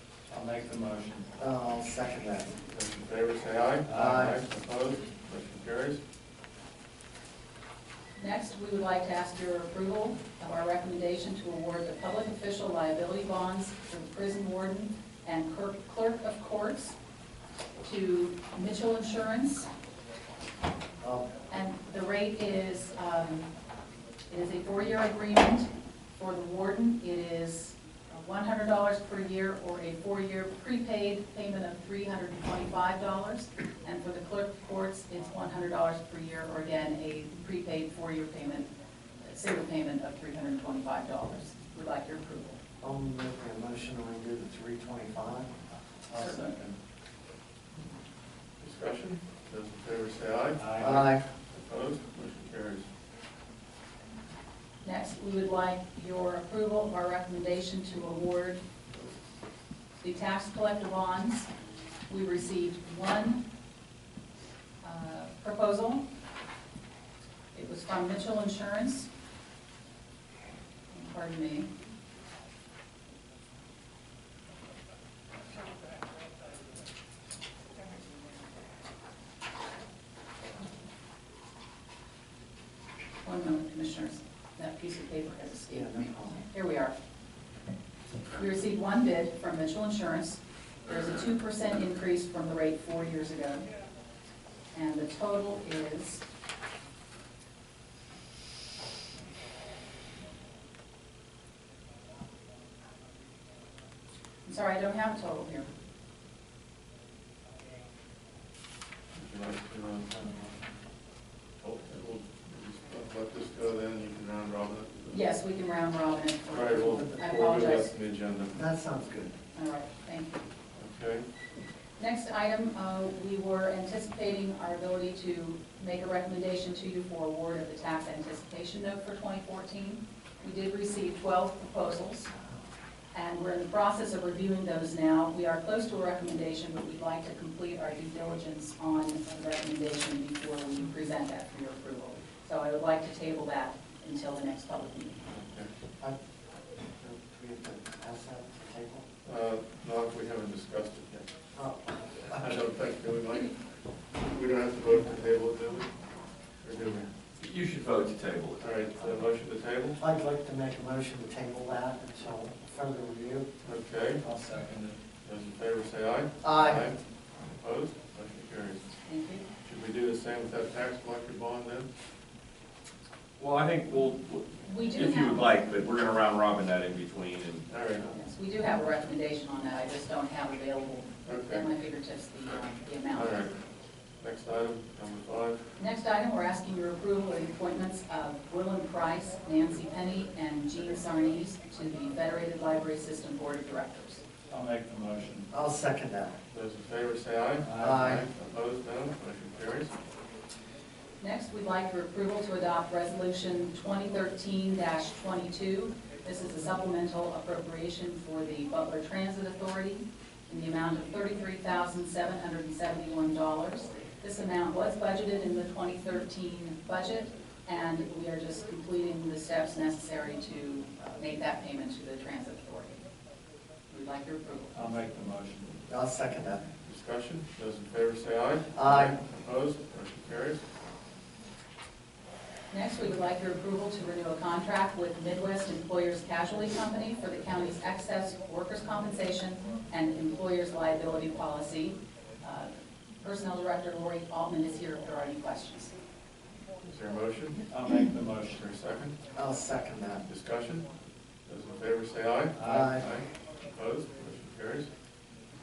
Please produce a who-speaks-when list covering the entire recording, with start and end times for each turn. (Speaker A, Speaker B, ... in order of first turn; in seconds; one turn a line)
Speaker A: 0.3-1.3
Speaker B: 1.4-2.5
Speaker C: 2.7-6.0
Speaker A: 3.9-4.3
Speaker B: 3.9-4.4
Speaker D: 8.2-17.0
Speaker D: 17.8-19.7
Speaker B: 21.0-21.3
Speaker D: 21.5-23.5
Speaker D: 24.3-38.7
Speaker D: 39.2-42.6
Speaker B: 42.8-45.7
Speaker A: 46.1-46.8
Speaker D: 46.2-46.5
Speaker C: 48.6-52.9
Speaker A: 50.6-51.0
Speaker B: 50.8-51.3
Speaker D: 54.8-58.6
Speaker D: 60.0-61.5
Speaker D: 62.1-63.4
Speaker D: 64.8-66.0
Speaker D: 67.5-69.1
Speaker D: 70.9-71.7
Speaker D: 83.2-86.9
Speaker B: 85.7-86.4
Speaker D: 88.3-93.7
Speaker D: 94.7-96.2
Speaker D: 104.5-105.7
Speaker C: 109.2-110.1
Speaker B: 110.2-110.5
Speaker C: 111.6-115.2
Speaker D: 115.1-117.9
Speaker C: 116.5-118.6
Speaker B: 118.5-119.3
Speaker D: 119.5-120.5
Speaker C: 120.8-121.3
Speaker D: 122.0-132.3
Speaker D: 133.1-145.2
Speaker C: 145.3-145.7
Speaker B: 147.0-149.1
Speaker C: 149.2-151.3
Speaker B: 151.6-152.4
Speaker C: 152.3-153.6
Speaker C: 154.2-155.9
Speaker C: 156.6-157.1
Speaker E: 157.4-158.7
Speaker C: 158.6-160.0
Speaker B: 160.0-163.5
Speaker C: 163.6-164.2
Speaker A: 164.2-165.0
Speaker C: 165.2-168.8
Speaker B: 166.4-166.9
Speaker D: 169.1-169.4
Speaker C: 169.6-171.9
Speaker E: 173.4-177.6
Speaker D: 174.7-175.5
Speaker C: 177.7-178.1
Speaker D: 178.1-183.5
Speaker C: 181.2-181.7
Speaker C: 183.1-183.5
Speaker C: 184.2-185.6
Speaker D: 185.8-194.2
Speaker A: 194.5-195.5
Speaker B: 195.5-196.4
Speaker C: 196.5-199.9
Speaker A: 197.6-198.0
Speaker B: 197.8-198.2
Speaker D: 201.2-223.0
Speaker D: 223.9-224.8
Speaker A: 224.7-225.8
Speaker B: 225.9-226.7
Speaker C: 226.9-230.6
Speaker B: 228.8-229.2
Speaker D: 232.7-245.9
Speaker C: 246.8-247.7
Speaker A: 247.7-248.6
Speaker C: 248.6-249.1
Speaker B: 249.3-250.2
Speaker C: 250.3-250.9
Speaker C: 251.5-254.9
Speaker A: 252.6-253.0
Speaker B: 252.6-253.1